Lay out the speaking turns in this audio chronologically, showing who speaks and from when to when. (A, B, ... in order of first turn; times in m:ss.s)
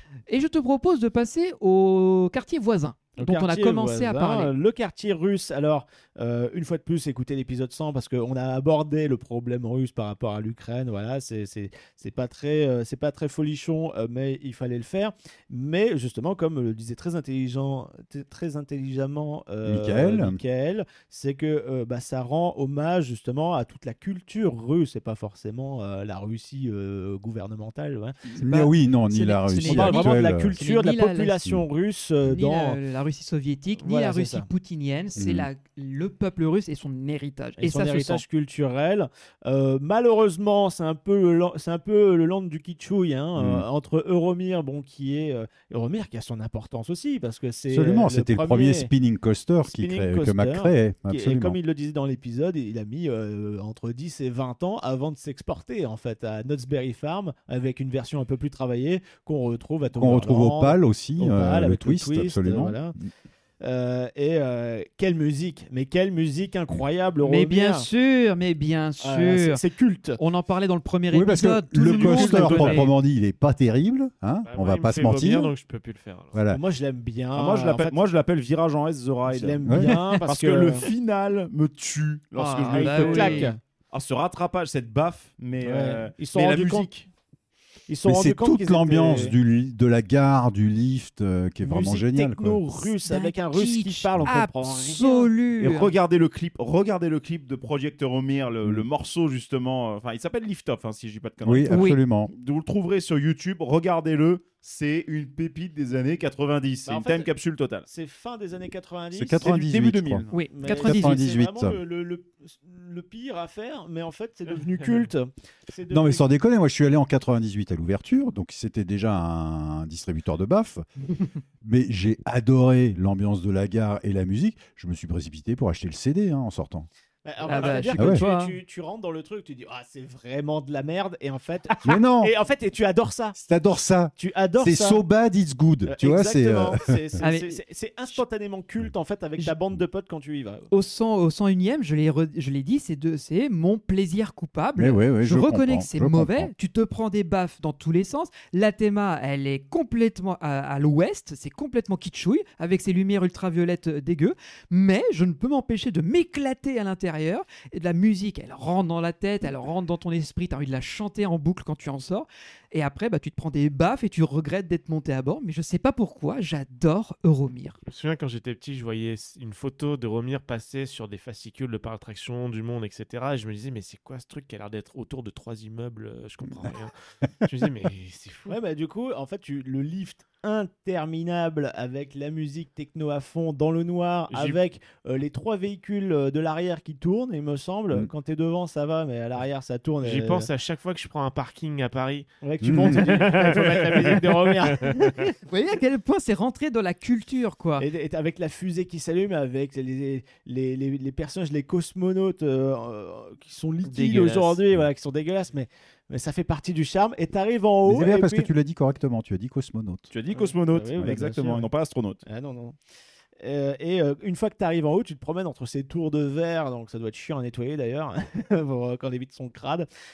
0:00.3-0:04.5 A
0:03.2-0:28.2 B
0:19.6-0:20.4 C
0:28.3-0:30.6 C
0:28.4-0:31.3 A
0:29.6-0:32.8 B
0:32.2-0:38.2 A
0:33.8-0:34.5 B
0:35.2-0:35.5 C
0:37.6-0:48.9 B
0:43.4-0:43.6 C
0:47.7-0:51.6 C
0:49.6-1:02.9 B
0:59.9-1:03.1 C
1:03.6-1:07.9 B
1:07.2-1:09.6 A
1:09.0-1:10.2 B
1:10.2-1:12.9 A
1:11.1-1:15.5 C
1:11.9-1:12.8 B
1:14.4-1:16.4 D
1:16.3-1:16.6 C
1:16.5-1:18.0 B
1:17.3-1:26.9 E
1:19.2-1:20.9 B
1:19.6-1:19.9 C
1:22.3-1:23.5 A
1:22.7-1:23.6 B
1:25.6-1:27.1 B
1:27.9-1:29.3 B
1:28.0-1:32.6 C
1:31.6-1:35.3 B
1:32.8-1:35.9 A
1:35.6-1:47.9 E
1:41.4-1:42.3 C
1:41.7-1:42.0 A
1:46.8-1:47.3 B
1:47.9-1:49.7 B
1:49.1-1:51.8 C
1:49.4-1:50.3 E
1:50.3-1:51.2 A
1:50.3-1:56.2 B
1:55.9-2:00.8 C
2:01.6-2:06.9 C
2:07.2-2:13.4 B
2:07.4-2:08.6 A
2:07.9-2:08.2 C
2:11.8-2:12.3 C
2:13.3-2:17.2 C
2:14.2-2:15.0 B
2:15.8-2:20.7 B
2:17.2-2:17.6 A
2:20.7-2:47.8 A
2:24.8-2:26.5 C
2:47.9-2:58.6 D
2:58.5-3:10.5 B
3:04.3-3:04.6 D
3:10.0-3:12.3 D
3:12.4-3:15.3 B
3:12.6-3:13.1 C
3:12.8-3:15.0 D
3:15.4-3:17.9 A
3:17.8-3:28.5 B
3:23.8-3:24.6 D
3:27.8-3:30.1 C
3:30.1-3:32.2 E
3:30.3-3:31.7 B
3:32.2-3:32.8 B
3:33.4-3:39.9 B